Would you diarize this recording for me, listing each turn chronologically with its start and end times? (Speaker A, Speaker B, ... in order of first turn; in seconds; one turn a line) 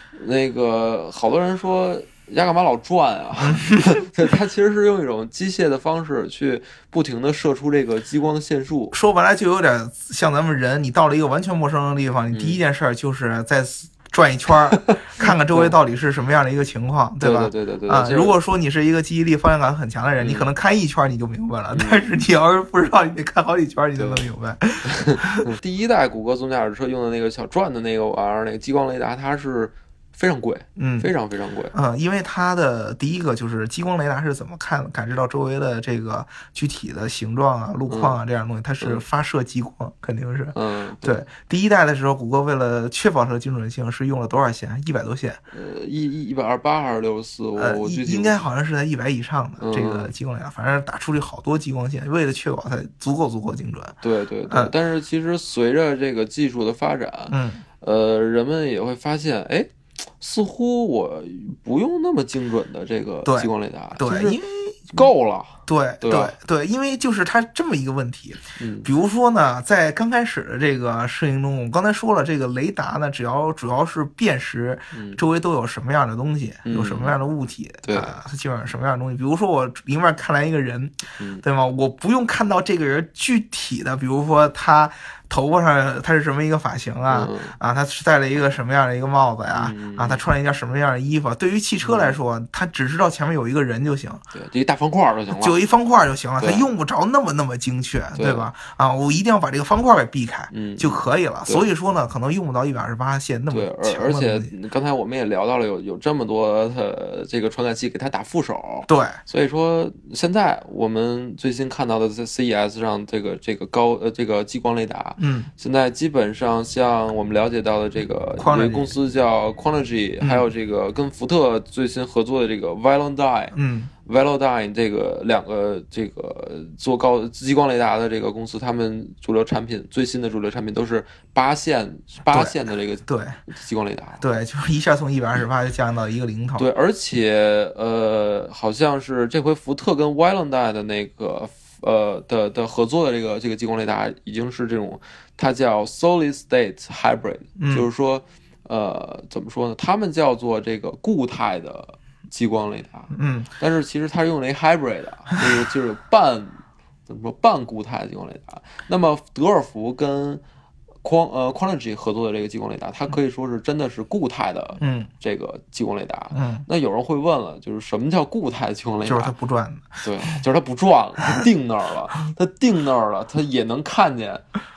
Speaker A: 0.1-8.9
Speaker B: 3.4-4.0
Speaker B: 8.9-25.5
Speaker A: 12.3-12.6
Speaker A: 14.9-15.8
Speaker A: 17.2-18.4
Speaker A: 20.2-20.5
Speaker A: 21.7-22.0
Speaker A: 24.0-24.2
Speaker A: 24.9-31.7
Speaker B: 30.8-31.1
Speaker B: 31.7-45.4
Speaker A: 37.9-38.2
Speaker A: 40.5-41.2
Speaker A: 45.5-48.4
Speaker B: 47.6-54.0
Speaker A: 49.6-50.1
Speaker A: 54.0-64.4
Speaker B: 57.3-57.6
Speaker B: 63.2-65.1
Speaker A: 64.9-66.3
Speaker B: 65.7-94.2
Speaker A: 68.6-68.9
Speaker A: 74.9-75.2
Speaker A: 76.7-77.1
Speaker A: 77.8-78.2
Speaker A: 81.2-81.4
Speaker A: 87.1-87.5
Speaker A: 89.5-90.2
Speaker A: 91.8-92.2
Speaker A: 94.3-95.6
Speaker B: 95.4-104.5
Speaker A: 96.4-96.7
Speaker A: 98.2-98.5
Speaker A: 100.5-101.7
Speaker A: 103.5-134.2
Speaker B: 108.9-109.2
Speaker B: 115.2-115.5
Speaker B: 118.4-118.9
Speaker B: 120.2-120.5
Speaker B: 123.5-123.9
Speaker B: 132.3-132.6
Speaker B: 133.1-133.4
Speaker B: 134.2-136.7
Speaker A: 136.6-160.4
Speaker B: 147.6-147.9
Speaker B: 153.1-153.5
Speaker A: 161.0-169.3
Speaker B: 164.8-165.1
Speaker B: 166.3-166.7
Speaker B: 169.0-170.0
Speaker A: 170.0-174.4